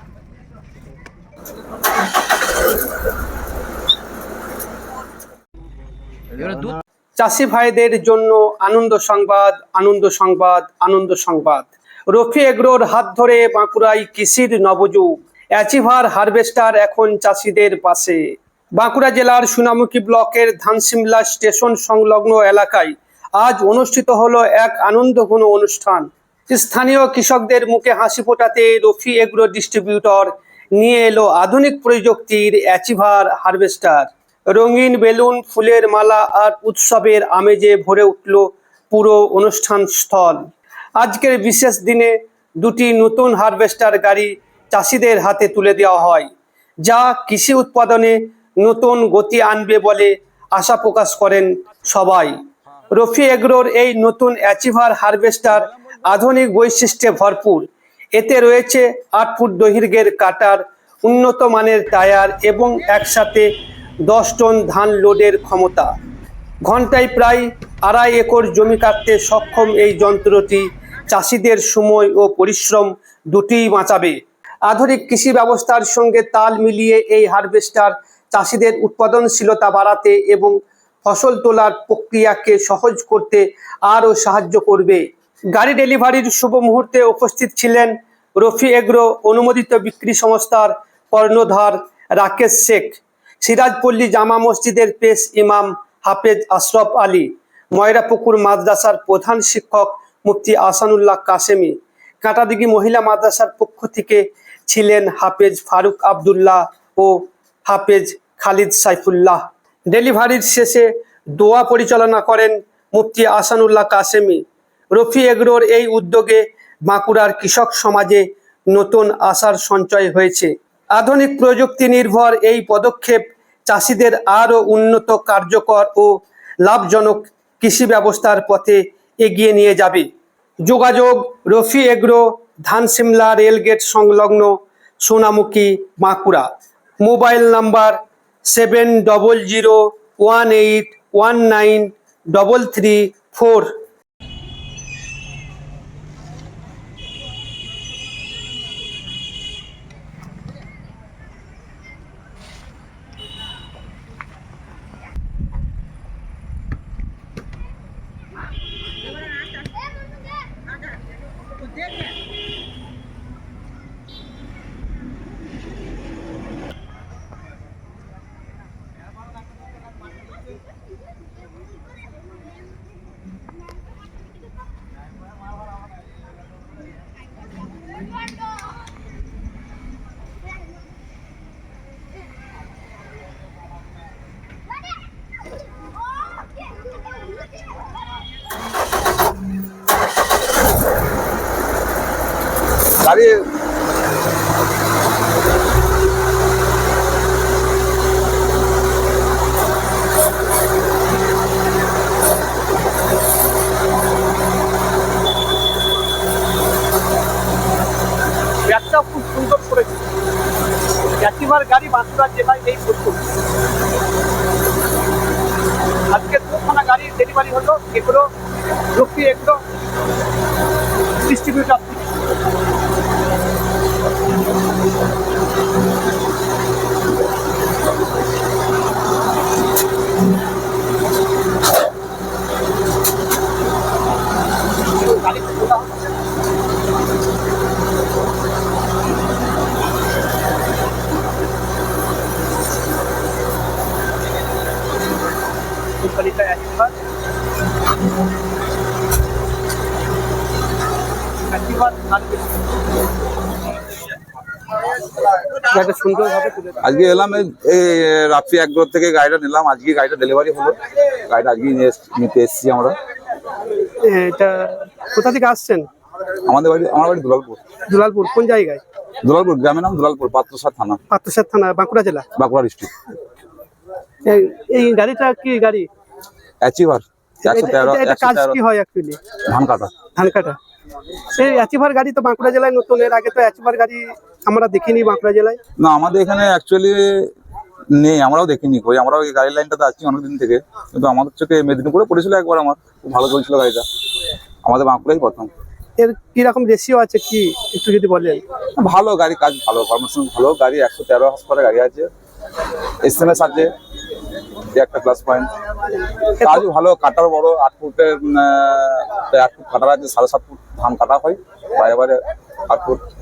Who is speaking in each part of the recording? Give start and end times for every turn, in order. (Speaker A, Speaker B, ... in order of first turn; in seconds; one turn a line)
Speaker A: 7.2-46.3
Speaker A: 46.8-52.4
Speaker A: 52.9-63.5
Speaker A: 64.0-65.9
Speaker A: 66.6-130.1
Speaker A: 130.6-136.5
Speaker A: 137.0-143.8
Speaker B: 193.0-193.4
Speaker A: 208.7-210.0
Speaker A: 211.2-213.2
Speaker A: 216.1-218.3
Speaker A: 218.9-219.6
Speaker A: 221.3-222.1
Speaker A: 235.0-235.9
Speaker A: 246.0-246.9
Speaker A: 251.5-252.5
Speaker A: 255.7-256.8
Speaker B: 256.8-260.8
Speaker B: 261.3-262.9
Speaker A: 264.0-265.9
Speaker B: 266.4-267.6
Speaker A: 267.9-268.8
Speaker B: 269.2-271.0
Speaker A: 271.1-272.3
Speaker B: 272.4-272.9
Speaker A: 274.2-275.9
Speaker B: 276.6-278.6
Speaker A: 277.4-279.2
Speaker B: 279.5-279.9
Speaker A: 280.1-280.6
Speaker A: 281.3-285.6
Speaker B: 285.8-287.3
Speaker B: 287.9-293.9
Speaker B: 294.6-295.5
Speaker A: 296.0-298.4
Speaker B: 298.8-302.1
Speaker B: 303.0-303.7
Speaker B: 304.7-305.5
Speaker B: 306.4-313.0